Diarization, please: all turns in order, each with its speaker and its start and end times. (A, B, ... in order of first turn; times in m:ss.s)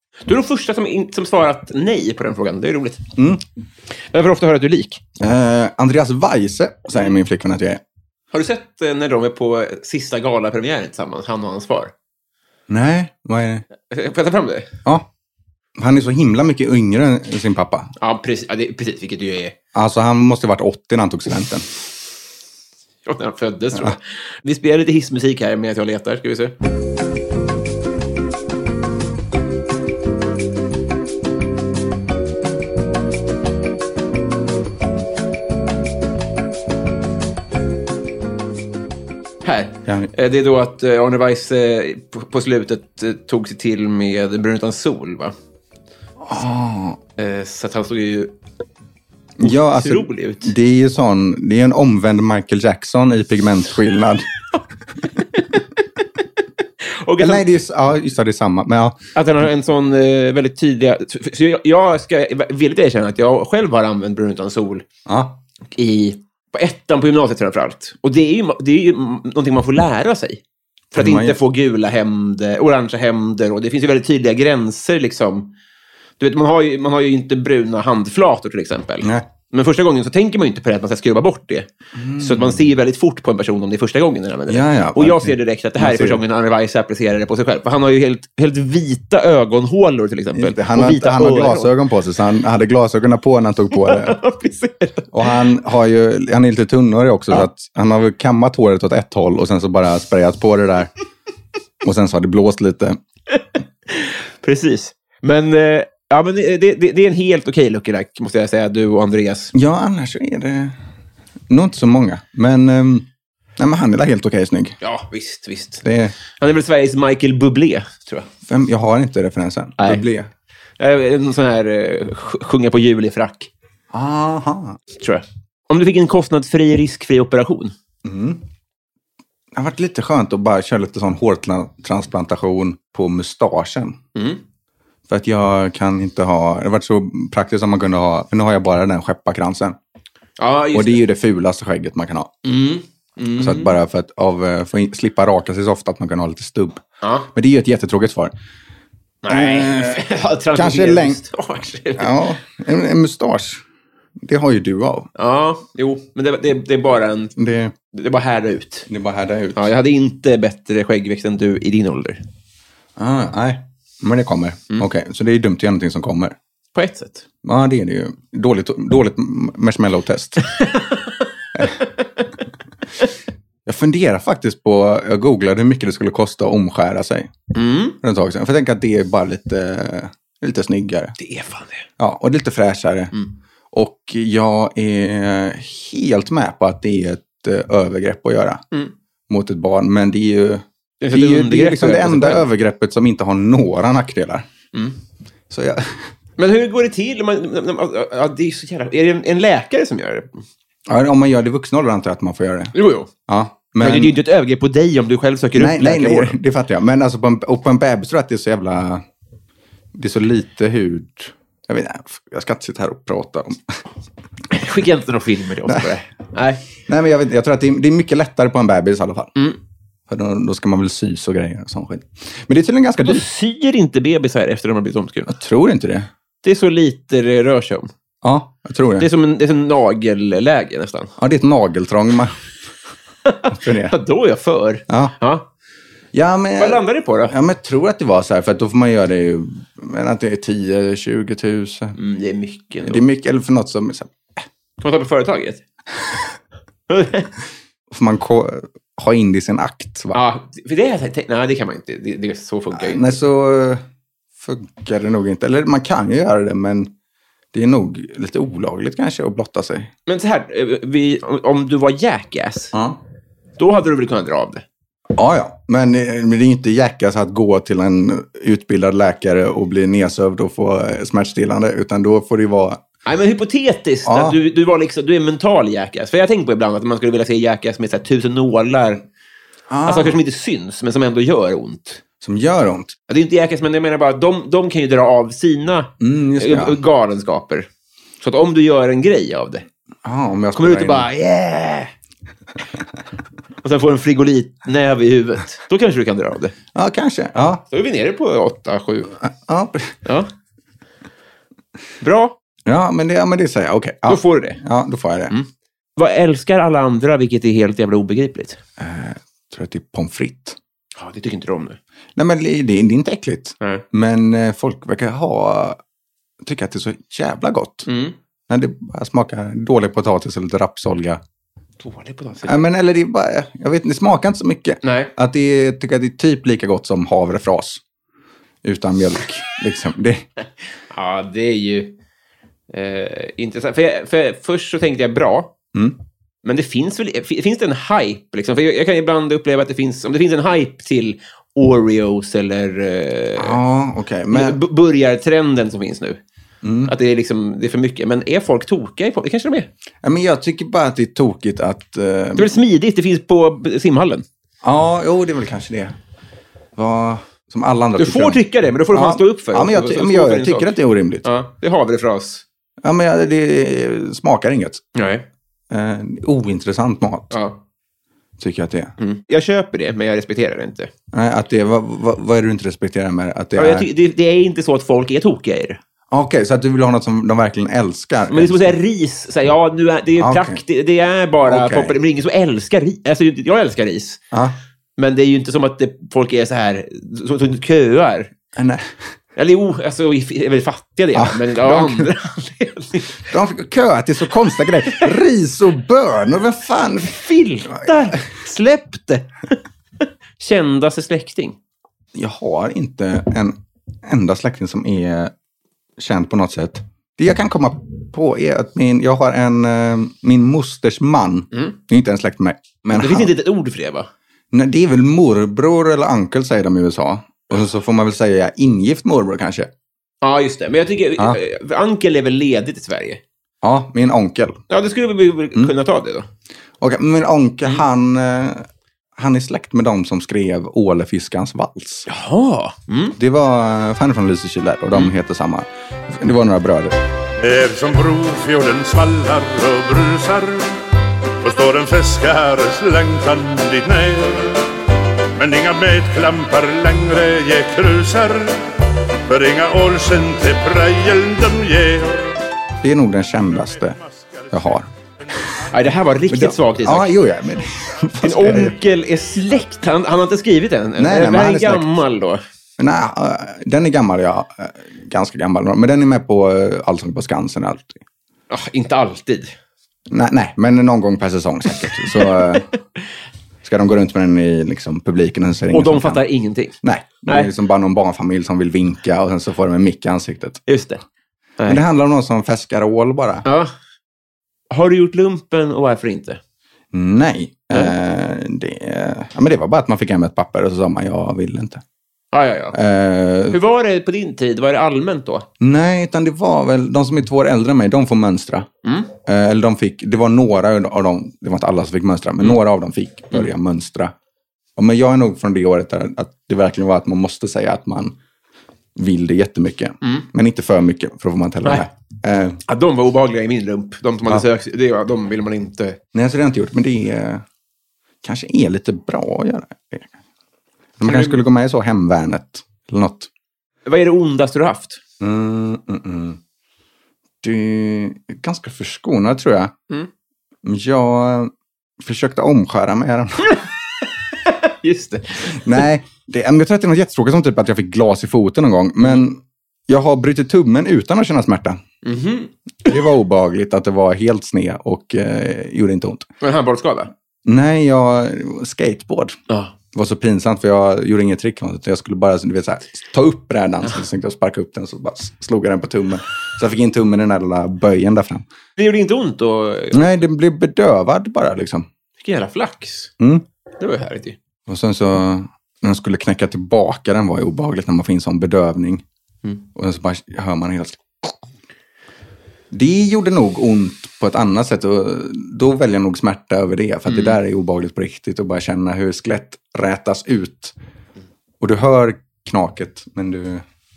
0:00.2-0:03.1 A
0:03.2-0:03.4 B
0:04.1-0:05.0 A
0:05.2-0:07.8 B
0:08.3-0:11.9 A
0:12.7-0:13.7 B
0:13.9-0:14.7 A
0:15.8-0:17.9 B
0:18.0-0:19.6 A
0:19.8-0:21.7 B
0:23.1-0:26.6 A
0:39.4-0:45.3 A
0:46.2-0:47.0 B
0:47.2-0:48.3 A
0:49.4-0:54.3 B
0:49.4-0:50.5 A
0:56.8-0:57.5 A
0:57.2-0:59.0 B
0:59.2-1:04.8 A
1:05.1-1:05.4 B
1:05.8-1:10.4 A
1:10.9-1:15.5 A
1:10.9-1:11.4 B
1:16.2-1:31.7 A
1:19.0-1:19.3 B
1:22.0-1:22.6 B
1:24.5-1:26.2 B
1:30.4-1:34.2 B
1:33.7-1:35.4 A
1:35.1-1:40.9 B
1:41.8-1:43.0 B
1:43.3-1:49.5 A
1:49.5-1:50.8 B
1:51.5-1:53.1 B
1:53.6-1:54.8 B
1:54.8-1:55.8 A
1:55.8-1:56.2 B
1:56.4-1:58.3 A
1:58.5-2:00.3 B
2:00.8-2:03.5 A
2:03.9-2:04.8 B
2:05.0-2:07.7 A
2:08.0-2:08.4 B
2:09.5-2:14.0 B
2:14.2-2:14.4 A
2:15.1-2:19.8 B
2:20.4-2:21.0 A
2:20.7-2:22.3 B
2:22.4-2:23.8 A
2:23.4-2:26.8 B
2:27.0-2:27.3 A
2:27.4-2:28.3 B
2:29.2-2:32.2 A
2:29.3-2:31.2 B
2:32.0-2:33.6 B
2:34.2-2:35.1 B
2:35.2-2:37.4 A
2:37.4-2:37.7 B
2:37.9-2:38.9 A
2:38.9-2:39.7 B
2:39.6-2:42.2 A
2:43.0-2:46.4 B
2:46.8-2:47.2 A
2:47.4-2:50.5 B
2:50.4-2:52.0 A
2:53.7-2:57.3 B
2:57.5-2:58.0 A
2:58.0-3:01.2 B
3:01.2-3:01.9 A
3:02.0-3:03.1 B
3:03.7-3:08.6 B
3:09.3-3:14.5 B
3:11.0-3:12.5 A
3:15.5-3:16.1 B
3:16.4-3:20.4 A
3:20.9-3:22.7 B
3:22.8-3:23.1 A
3:23.3-3:24.2 B
3:23.8-3:26.4 A
3:25.6-3:29.0 B
3:29.9-3:33.8 B
3:34.5-3:36.8 A
3:36.9-3:39.3 B
3:40.1-3:43.2 B
3:43.0-3:45.4 A
3:45.3-3:46.1 B
3:46.4-3:47.9 A
3:48.2-3:49.1 B
3:49.0-3:51.1 A
3:51.2-3:52.4 B
3:53.2-3:55.4 A
3:53.5-3:54.0 B
3:56.1-4:02.0 B
3:56.6-3:57.4 A
4:02.0-4:03.0 A
4:02.8-4:04.3 B
4:04.8-4:05.6 A
4:06.9-4:07.3 A
4:07.9-4:10.2 B
4:10.1-4:13.1 A
4:12.7-4:13.8 B
4:14.4-4:16.9 B
4:17.5-4:19.9 B
4:20.1-4:22.7 A
4:22.7-4:23.0 B
4:23.6-4:24.6 A
4:25.1-4:32.8 B
4:33.0-4:39.0 A
4:34.1-4:34.4 B
4:39.7-4:40.2 B
4:39.8-4:42.0 A
4:42.2-4:43.0 B
4:43.1-4:47.7 A
4:46.0-4:46.8 B
4:48.2-4:49.7 A
4:50.0-4:51.1 B
4:50.6-4:51.9 A
4:53.6-4:56.6 A
4:56.7-4:57.6 B
4:57.6-4:59.2 A
4:59.3-5:00.0 B
5:00.0-5:00.3 A
5:02.0-5:02.4 A
5:02.7-5:05.4 B
5:04.1-5:04.6 A
5:05.3-5:08.6 A
5:08.8-5:10.6 B
5:11.0-5:11.8 A
5:12.2-5:15.8 B
5:16.4-5:17.9 B
5:17.9-5:18.2 A
5:18.5-5:21.2 B
5:21.8-5:22.7 A
5:22.4-5:27.8 B
5:24.8-5:25.1 A
5:28.6-5:30.3 B
5:30.9-5:32.0 A
5:32.7-5:35.5 A
5:36.4-5:43.6 A
5:43.4-5:44.6 B
5:44.3-5:46.2 A
5:46.6-5:47.0 B
5:46.9-5:49.7 A
5:50.0-5:52.5 B
5:52.4-5:54.2 A
5:54.6-5:56.0 B
5:56.8-6:01.3 B
5:58.0-6:02.4 A
6:02.8-6:04.9 B
6:05.0-6:05.3 A
6:05.7-6:07.4 B
6:07.3-6:07.6 A
6:08.4-6:09.0 B
6:09.0-6:10.9 A
6:11.1-6:13.9 B
6:13.6-6:15.8 A
6:16.1-6:18.8 B
6:18.3-6:24.2 A
6:20.2-6:20.6 B
6:21.5-6:22.0 B
6:24.3-6:24.6 B
6:25.0-6:28.3 A
6:28.6-6:28.9 B
6:29.4-6:33.2 A
6:31.2-6:32.1 B
6:33.3-6:37.2 B
6:34.8-6:35.1 A
6:36.9-6:41.6 A
6:42.2-6:45.3 B
6:46.0-6:53.3 B
6:52.9-6:54.1 A
6:54.5-6:59.7 B
7:00.2-7:03.2 A
7:03.6-7:04.6 B
7:04.7-7:06.3 A
7:06.8-7:12.1 B
7:12.1-7:13.2 A
7:13.2-7:17.0 B
7:17.4-7:20.8 C
7:21.4-7:24.7 C
7:25.4-7:32.4 C
7:32.8-7:34.0 B
7:34.5-7:34.9 B
7:35.7-7:37.2 A
7:36.3-7:38.8 B
7:38.2-7:42.4 A
7:41.0-7:41.9 B
7:42.8-7:48.0 B
7:48.5-7:49.5 A
7:50.1-7:52.7 B
7:52.1-7:52.6 A
7:53.6-7:56.2 B
7:55.7-7:57.5 A
7:56.8-8:00.6 B
8:00.7-8:01.0 A
8:01.7-8:03.4 B
8:03.4-8:03.7 A
8:04.7-8:06.4 A
8:06.9-8:11.8 B
8:12.3-8:12.8 A
8:12.7-8:13.6 B
8:13.5-8:15.5 A
8:15.6-8:18.7 B
8:18.8-8:19.1 A
8:19.3-8:24.1 B
8:24.8-8:28.2 B
8:29.0-8:32.6 B
8:32.7-8:36.0 A
8:36.1-8:37.4 B
8:38.2-8:40.1 B
8:41.0-8:43.3 B
8:41.0-8:41.4 A
8:43.9-8:45.0 A
8:45.2-8:46.4 B
8:47.4-8:49.7 B
8:50.6-8:53.6 B
8:54.4-8:55.9 A
8:55.5-9:01.8 B
9:02.0-9:03.0 A
9:02.9-9:06.3 B
9:06.4-9:07.1 A
9:07.5-9:09.4 B
9:09.9-9:18.5 B
9:18.8-9:20.2 A
9:19.9-9:21.9 B
9:22.2-9:23.1 A
9:23.2-9:23.4 B
9:23.8-9:24.4 A
9:24.7-9:29.0 B
9:29.8-9:31.4 B
9:32.7-9:40.8 B
9:37.1-9:37.4 A
9:41.6-9:43.6 B